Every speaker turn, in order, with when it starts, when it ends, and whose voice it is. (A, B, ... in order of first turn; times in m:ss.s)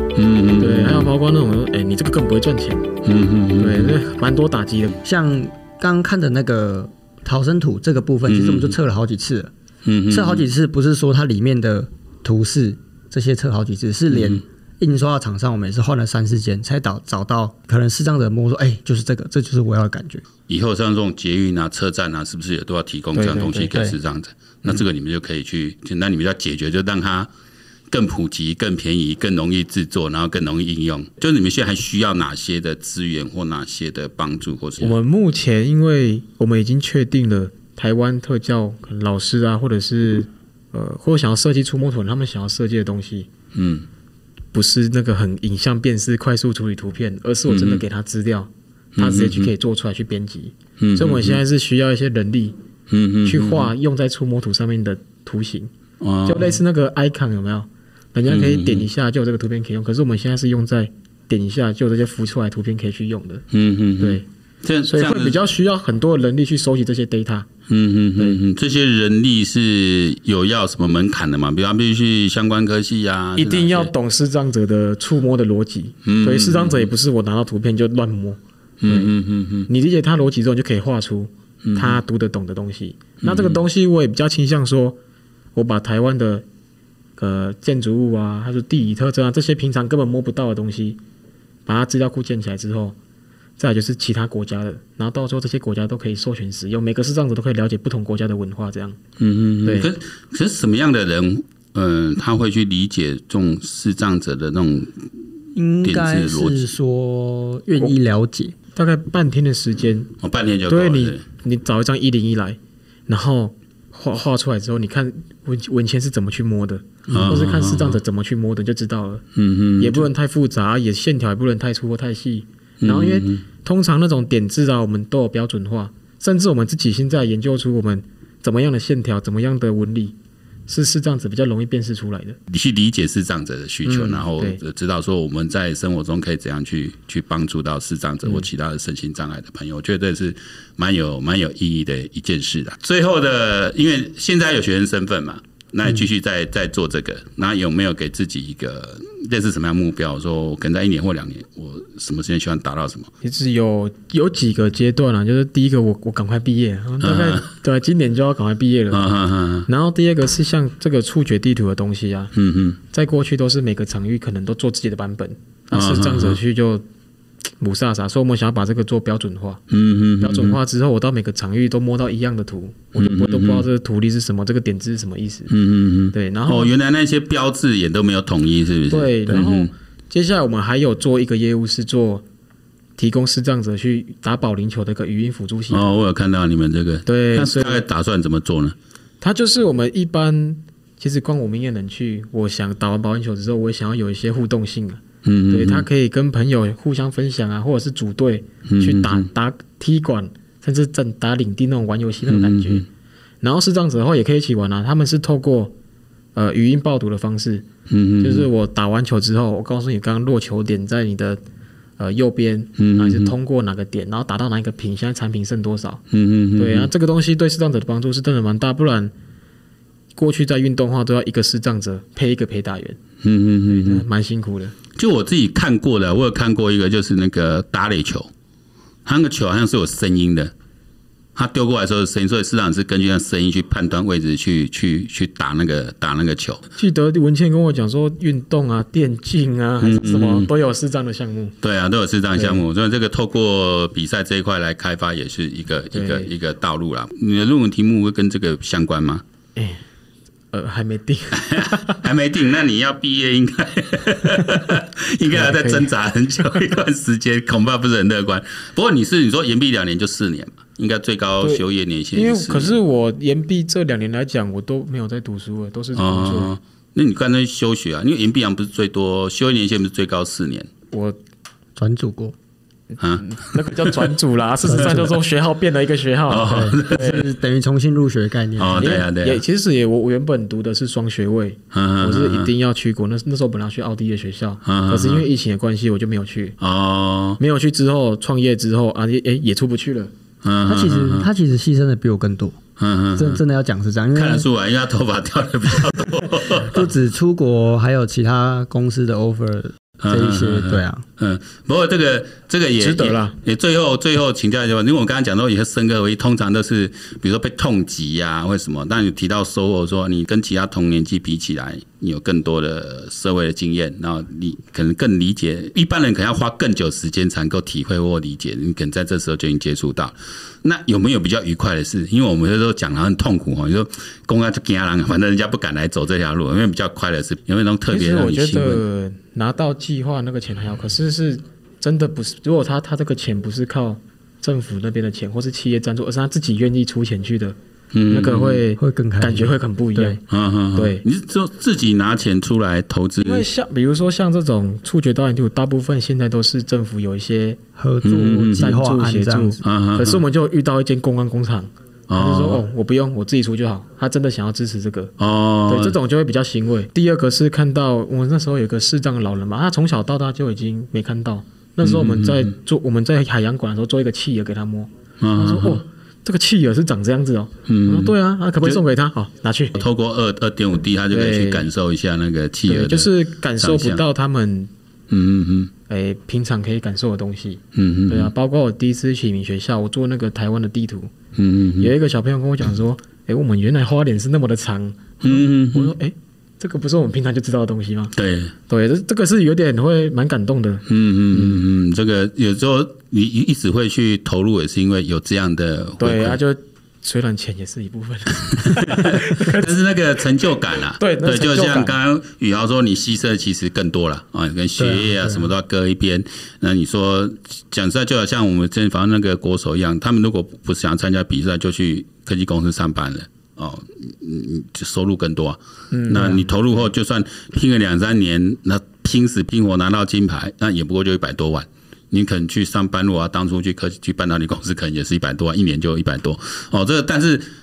0:00.2-0:01.1 A
0:00.6-0:02.8 B
0:03.0-0:04.0 A
0:03.6-0:05.0 B
0:05.0-0:09.5 C
0:08.2-0:08.8 A
0:09.8-0:10.5 A
0:10.1-0:20.2 C
0:14.1-0:14.4 A
0:20.5-0:27.3 A
0:23.1-0:23.7 B
0:23.6-0:24.0 C
0:27.9-0:34.9 A
0:34.8-0:43.3 B
0:43.5-0:43.8 A
0:44.5-0:52.6 B
0:47.5-0:47.8 A
0:49.0-0:49.5 A
0:50.8-0:51.4 A
0:52.9-0:53.7 A
0:53.2-0:55.7 B
0:56.0-0:56.6 A
0:56.2-1:03.4 B
0:58.3-0:58.9 A
1:03.5-1:05.4 A
1:04.0-1:04.2 B
1:04.8-1:07.5 B
1:07.7-1:13.9 A
1:13.4-1:19.1 B
1:16.0-1:16.9 A
1:18.8-1:19.7 A
1:19.7-1:25.0 B
1:21.6-1:22.0 A
1:23.2-1:23.6 A
1:25.5-1:26.4 B
1:27.2-1:31.0 B
1:31.6-1:33.0 B
1:33.6-1:39.0 B
1:39.2-1:45.1 A
1:39.6-1:39.9 B
1:45.5-1:48.5 C
1:45.8-1:46.7 A
1:48.7-1:50.1 B
1:50.2-1:51.2 A
1:50.7-1:59.2 B
1:57.1-1:58.0 A
1:59.4-2:00.0 A
1:59.8-2:10.2 B
2:02.8-2:03.4 A
2:10.7-2:12.4 B
2:12.5-2:33.1 A
2:13.8-2:14.6 B
2:33.2-2:39.1 B
2:37.0-2:37.5 A
2:38.9-2:39.7 A
2:39.7-2:42.3 B
2:42.3-2:42.8 A
2:42.9-2:46.8 B
2:45.7-2:46.4 A
2:47.6-2:49.6 B
2:49.7-2:50.6 A
2:50.2-2:55.5 B
2:53.0-2:53.7 A
2:55.5-2:59.7 A
2:56.1-2:56.7 B
2:58.9-3:02.2 B
3:03.0-3:05.9 B
3:05.7-3:08.7 A
3:07.0-3:07.8 B
3:09.2-3:22.8 B
3:15.2-3:15.8 A
3:18.6-3:19.3 A
3:22.3-3:22.8 A
3:23.4-3:25.7 B
3:26.3-3:27.7 B
3:27.9-3:28.5 A
3:28.2-3:31.4 B
3:32.0-3:36.0 B
3:32.8-3:33.3 A
3:36.1-3:36.9 A
3:36.6-3:39.1 B
3:40.2-3:43.0 B
3:43.2-3:44.0 A
3:43.7-3:44.7 B
3:45.0-3:48.3 A
3:49.0-3:50.5 A
3:51.4-3:56.6 A
3:56.8-4:01.5 B
3:59.8-4:00.5 A
4:01.6-4:09.2 A
4:02.3-4:02.6 B
4:05.9-4:06.3 B
4:09.6-4:09.8 B
4:10.5-4:12.0 B
4:11.4-4:22.7 A
4:15.3-4:15.9 B
4:21.4-4:26.5 B
4:25.9-4:30.7 A
4:30.9-4:31.2 B
4:31.8-4:32.3 C
4:33.0-4:34.1 A
4:33.2-4:37.3 B
4:34.6-4:35.1 C
4:36.3-4:37.3 A
4:36.4-4:39.0 C
4:38.6-4:39.4 A
4:38.8-4:46.6 B
4:41.7-4:42.5 A
4:44.6-4:45.2 A
4:46.6-4:47.4 A
4:47.4-4:50.1 B
4:50.4-4:51.3 A
4:50.7-4:52.6 C
4:52.8-4:53.4 A
4:53.2-4:54.5 C
4:54.1-4:56.9 A
4:56.6-5:01.0 C
5:00.0-5:28.8 A
5:02.8-5:03.4 B
5:27.9-5:37.6 B
5:37.9-5:38.6 A
5:38.1-5:40.2 B
5:38.8-5:40.2 C
5:40.3-5:43.4 A
5:40.7-5:41.0 B
5:43.2-5:47.6 B
5:47.8-5:49.6 C
5:48.0-5:48.8 A
5:48.6-5:55.1 B
5:49.6-5:50.2 A
5:52.1-5:52.6 A
5:55.2-5:56.0 A
5:55.7-6:09.8 B
6:01.8-6:02.5 A
6:05.2-6:05.8 A
6:07.7-6:08.8 A
6:09.8-6:14.0 A
6:11.1-6:11.7 B
6:12.6-6:14.7 B
6:15.1-6:15.7 A
6:15.9-6:21.1 B
6:17.7-6:18.3 A
6:21.3-6:21.9 A
6:21.8-6:28.1 B
6:25.2-6:25.9 A
6:28.1-6:28.5 A
6:28.7-6:31.6 B
6:30.9-6:36.4 A
6:36.0-6:39.7 B
6:38.7-7:07.4 A
6:41.0-6:42.0 B
6:44.8-6:45.5 C
6:55.9-6:56.9 B